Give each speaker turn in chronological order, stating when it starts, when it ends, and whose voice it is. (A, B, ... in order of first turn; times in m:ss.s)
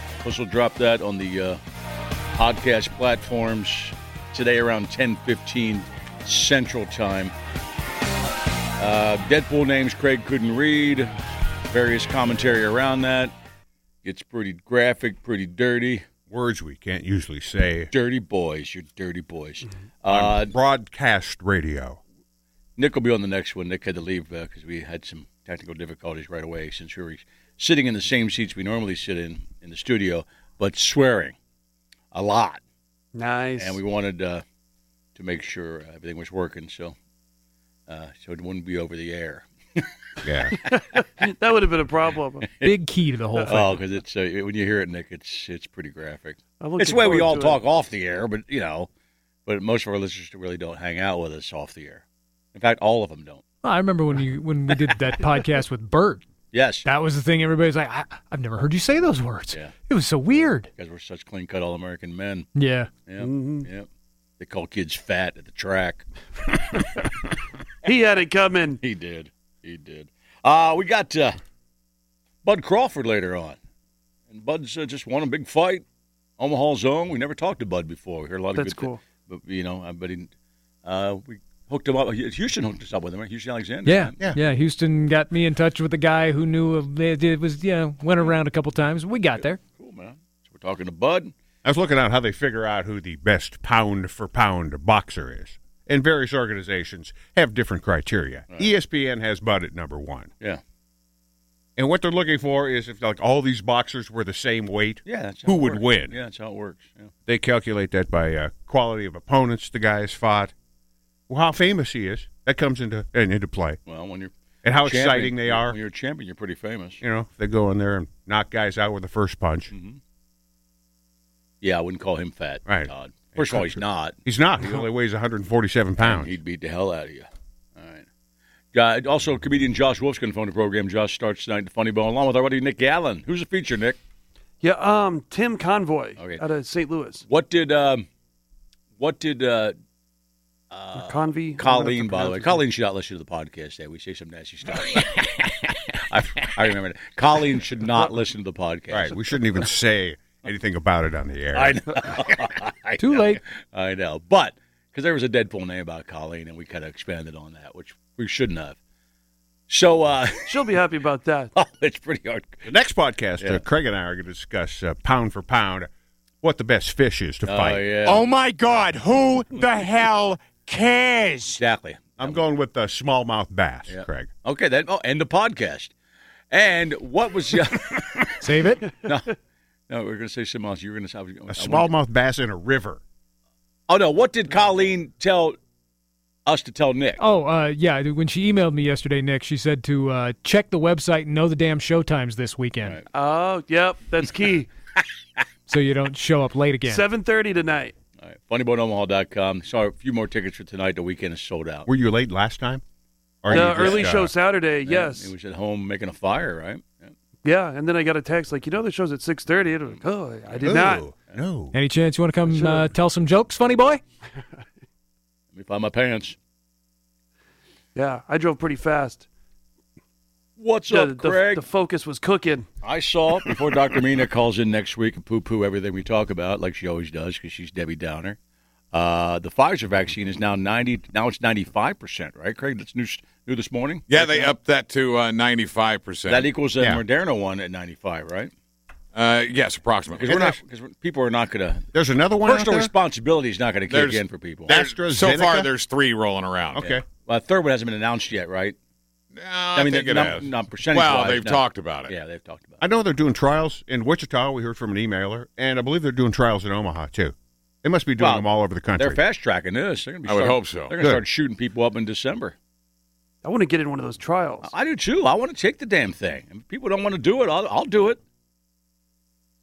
0:00.2-0:01.6 A
0:02.3-0:07.3 A
0:08.8-0:11.1 A
0:11.7-0:13.3 A
0:14.0-0:16.0 A
0:16.3-0:17.9 B
0:17.9-0:20.6 A
0:20.1-0:22.0 B
0:22.8-0:31.4 A
0:32.1-0:32.6 A
0:33.1-0:33.8 C
0:33.6-0:34.4 A
0:35.2-0:37.0 A
0:37.9-0:39.9 A
0:40.2-0:40.6 B
0:40.7-0:42.4 C
0:42.4-0:42.8 A
0:42.6-0:43.8 D
0:43.5-0:48.9 A
0:46.6-0:47.6 C
0:49.4-0:53.4 A
0:53.6-0:56.2 D
0:56.5-0:56.9 A
0:56.8-1:00.7 D
1:00.7-1:02.5 A
1:02.6-1:02.9 D
1:03.1-1:03.9 A
1:03.2-1:03.7 C
1:04.4-1:06.1 A
1:07.8-1:08.8 C
1:08.8-1:11.4 A
1:12.4-1:13.6 A
1:14.3-1:15.8 A
1:16.4-1:20.3 A
1:18.5-1:19.0 C
1:20.8-1:24.2 A
1:23.8-1:29.6 D
1:29.4-1:31.3 A
1:31.6-1:40.3 B
1:41.8-1:46.2 B
1:45.0-1:47.1 A
1:47.3-1:50.5 B
1:51.3-1:53.8 B
1:53.9-1:54.3 A
1:54.6-1:55.8 B
1:54.8-1:57.0 A
1:57.0-1:59.7 B
1:59.7-2:00.0 A
2:01.6-2:04.2 A
2:02.6-2:06.3 B
2:06.0-2:08.1 A
2:08.7-2:14.0 A
2:14.6-2:17.2 C
2:16.2-2:16.4 A
2:17.2-2:18.1 A
2:19.0-2:19.8 A
2:20.7-2:29.1 A
2:20.9-2:22.6 C
2:28.9-2:31.8 B
2:31.6-2:38.8 A
2:33.0-2:33.4 D
2:39.7-2:40.9 A
2:40.5-2:41.5 C
2:41.6-2:42.6 A
2:42.6-2:45.9 B
2:46.4-2:48.0 B
2:47.4-2:48.3 A
2:48.0-2:51.6 E
2:51.5-2:52.4 A
2:52.2-2:54.3 B
2:53.9-2:55.9 A
2:56.5-2:58.4 A
2:58.4-2:58.9 D
2:59.0-2:59.4 A
2:59.9-3:01.9 A
3:01.5-3:03.0 B
3:03.9-3:05.6 A
3:06.4-3:07.2 A
3:07.2-3:13.0 D
3:13.1-3:14.7 C
3:15.7-3:17.1 D
3:16.8-3:18.0 C
3:18.2-3:21.9 A
3:21.9-3:22.8 B
3:23.4-3:24.3 B
3:23.5-3:25.3 C
3:23.5-3:24.2 A
3:24.8-3:27.1 A
3:27.4-3:31.1 C
3:29.9-3:31.3 A
3:30.6-3:31.8 B
3:31.7-3:34.0 D
3:32.5-3:32.8 C
3:35.5-3:36.4 A
3:37.9-3:39.2 C
3:40.6-3:41.6 A
3:40.8-3:42.7 C
3:42.8-3:48.4 A
3:48.9-3:54.5 A
3:54.1-3:56.5 F
3:56.3-3:58.5 A
3:56.8-3:57.0 B
3:59.1-4:00.3 F
4:00.2-4:01.9 A
4:00.2-4:00.6 B
4:01.9-4:02.9 B
4:02.4-4:04.8 A
4:03.9-4:06.8 F
4:04.7-4:05.7 B
4:06.8-4:07.0 B
4:06.8-4:08.8 A
4:09.3-4:12.2 F
4:09.7-4:12.8 A
4:12.8-4:19.2 B
4:18.2-4:22.6 A
4:20.2-4:20.9 F
4:23.4-4:24.7 C
4:24.6-4:28.2 A